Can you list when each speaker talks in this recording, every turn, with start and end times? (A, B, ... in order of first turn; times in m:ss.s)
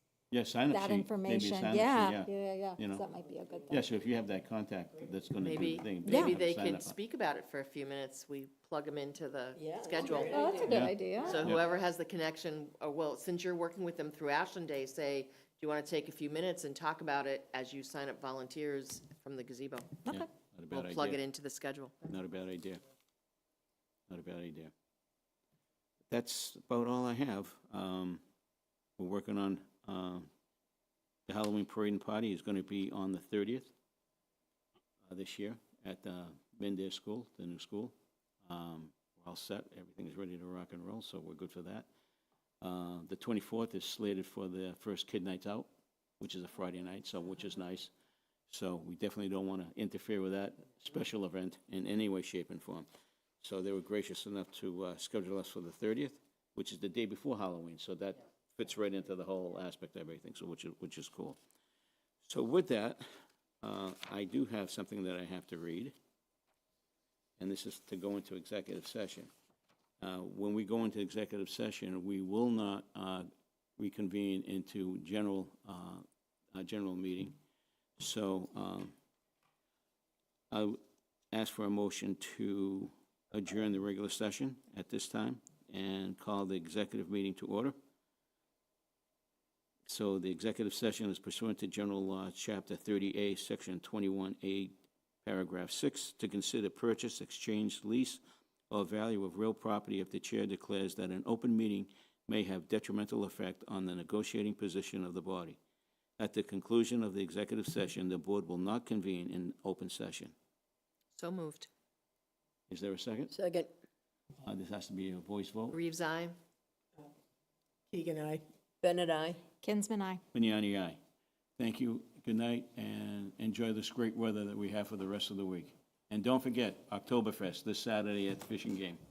0:00.3-0:03.1 A
0:00.7-0:03.8 B
0:03.7-0:07.0 A
0:05.4-0:20.0 C
0:06.0-0:06.4 B
0:09.6-0:10.8 D
0:10.0-0:11.4 B
0:10.7-0:11.6 A
0:20.1-0:21.2 A
0:20.7-0:21.9 C
0:22.0-0:22.8 A
0:24.1-0:24.7 A
0:26.1-0:28.2 A
0:29.0-0:30.3 A
0:31.3-0:33.7 A
0:35.0-0:41.9 A
0:42.6-0:45.7 A
0:46.2-0:47.9 A
0:48.5-0:52.9 A
0:53.4-1:01.4 A
1:02.2-1:03.0 A
1:03.6-1:05.9 A
1:07.4-1:09.3 A
1:10.0-1:13.3 A
1:13.8-1:17.4 A
1:18.0-1:18.9 A
1:20.5-1:20.8 A
1:21.3-1:27.7 A
1:29.8-1:34.7 A
1:35.2-1:45.6 A
1:46.2-1:50.3 A
1:51.1-1:51.7 C
1:52.7-1:53.3 A
1:53.3-1:53.7 D
1:54.4-1:55.8 A
1:55.7-1:56.4 C
1:57.9-1:59.4 D
1:59.6-2:00.2 B
2:00.3-2:01.0 A
2:01.6-2:09.0 A